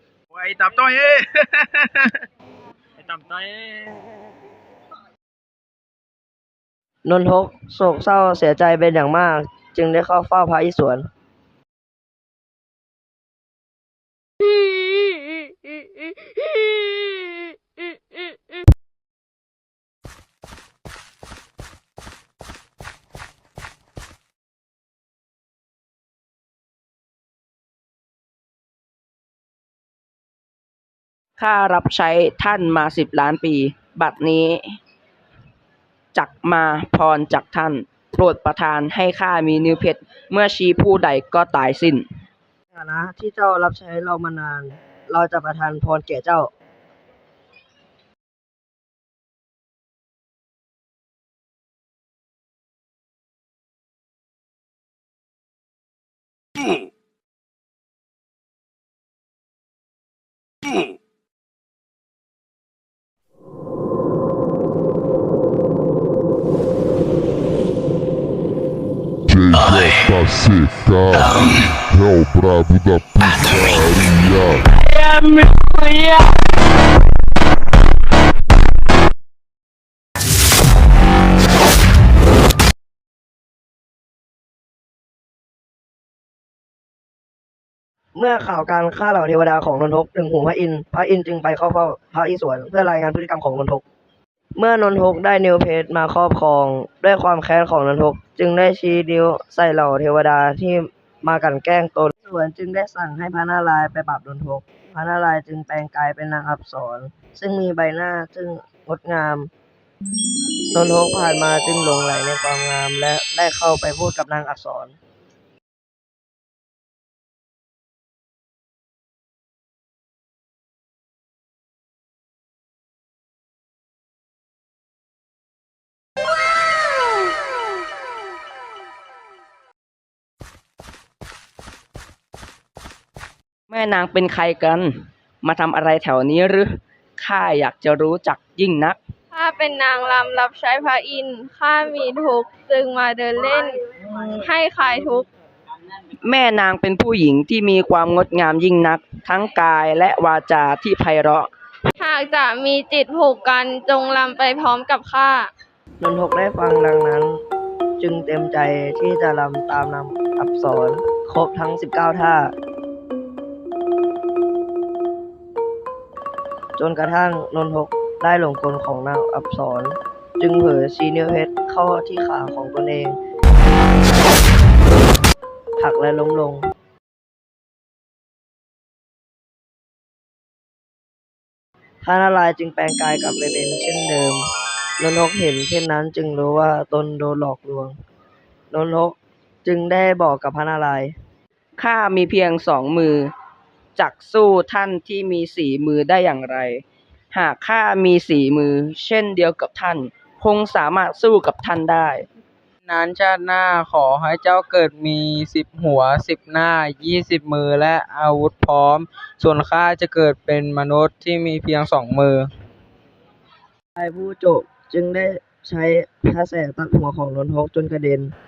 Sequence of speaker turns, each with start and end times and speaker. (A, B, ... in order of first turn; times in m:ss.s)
0:00.3-0:02.0 A
0:03.0-0:03.6 A
0:07.0-0:11.1 B
0:31.4-0:34.8 C
0:36.1-0:42.0 C
0:42.7-0:46.5 B
1:09.3-1:14.7 D
1:28.1-1:33.8 B
1:34.6-1:49.5 B
1:50.7-1:55.0 B
2:13.7-2:14.9 C
2:15.4-2:19.0 C
2:19.3-2:25.3 E
2:26.1-2:31.5 C
2:32.0-2:35.5 E
2:36.0-2:37.4 B
2:38.0-2:42.5 B
2:46.8-2:53.2 B
2:55.8-2:56.7 B
3:02.0-3:04.4 B
3:05.0-3:08.0 B
3:08.7-3:11.1 B
3:11.8-3:13.3 C
3:14.0-3:22.2 C
3:22.8-3:32.5 F
3:34.0-3:38.3 B